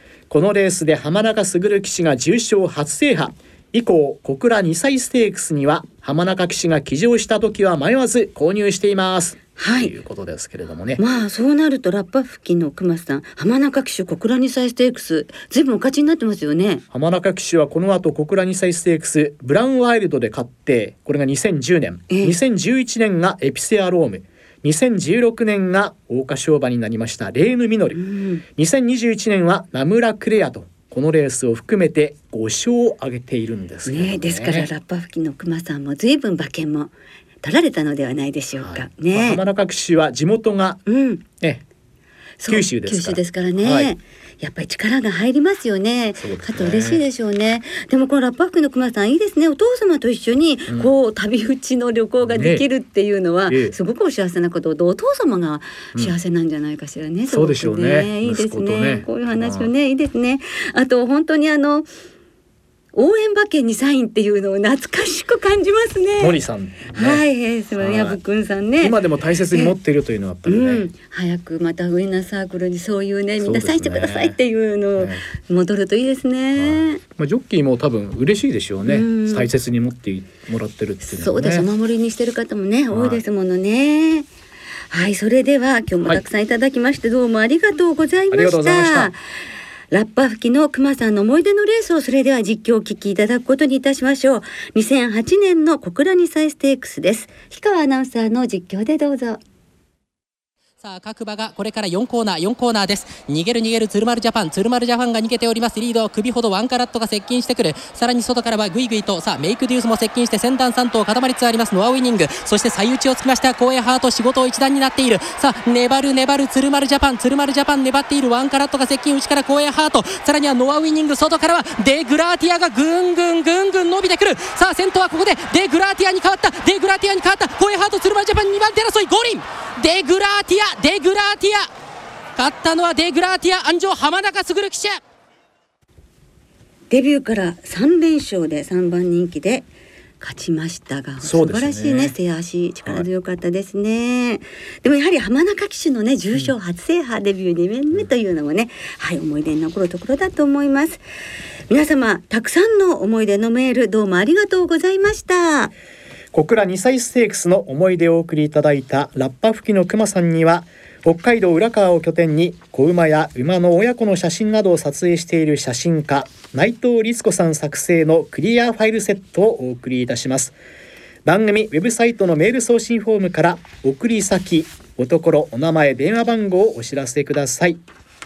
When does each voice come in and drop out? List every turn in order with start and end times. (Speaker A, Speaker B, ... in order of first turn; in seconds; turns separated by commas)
Speaker A: 0.3-11.0, Speaker B: 9.6-9.9, Speaker B: 11.0-16.8, Speaker A: 16.9-28.0, Speaker B: 22.1-22.3, Speaker B: 27.9-28.4, Speaker A: 28.5-34.7, Speaker B: 33.9-36.9, Speaker B: 37.4-39.4, Speaker A: 38.6-40.8, Speaker B: 40.9-41.2, Speaker A: 41.4-41.6, Speaker B: 42.4-61.9, Speaker A: 42.5-43.9, Speaker A: 46.2-47.0, Speaker A: 52.3-52.6, Speaker A: 53.5-53.7, Speaker A: 57.3-59.7, Speaker B: 62.9-66.4, Speaker A: 66.2-67.2, Speaker B: 66.9-69.0, Speaker A: 67.8-68.2, Speaker A: 68.8-70.9, Speaker B: 69.5-69.7, Speaker B: 70.5-77.0, Speaker A: 73.4-74.4, Speaker A: 76.6-81.7, Speaker B: 78.9-79.5, Speaker B: 81.0-84.3, Speaker A: 82.9-83.2, Speaker B: 84.9-89.2, Speaker A: 88.3-89.1, Speaker B: 89.9-99.4, Speaker C: 100.8-131.7, Speaker C: 132.4-135.0, Speaker B: 136.9-139.7, Speaker B: 140.2-151.0, Speaker A: 141.2-142.1, Speaker B: 151.7-155.7, Speaker A: 156.3-170.5, Speaker A: 171.2-177.8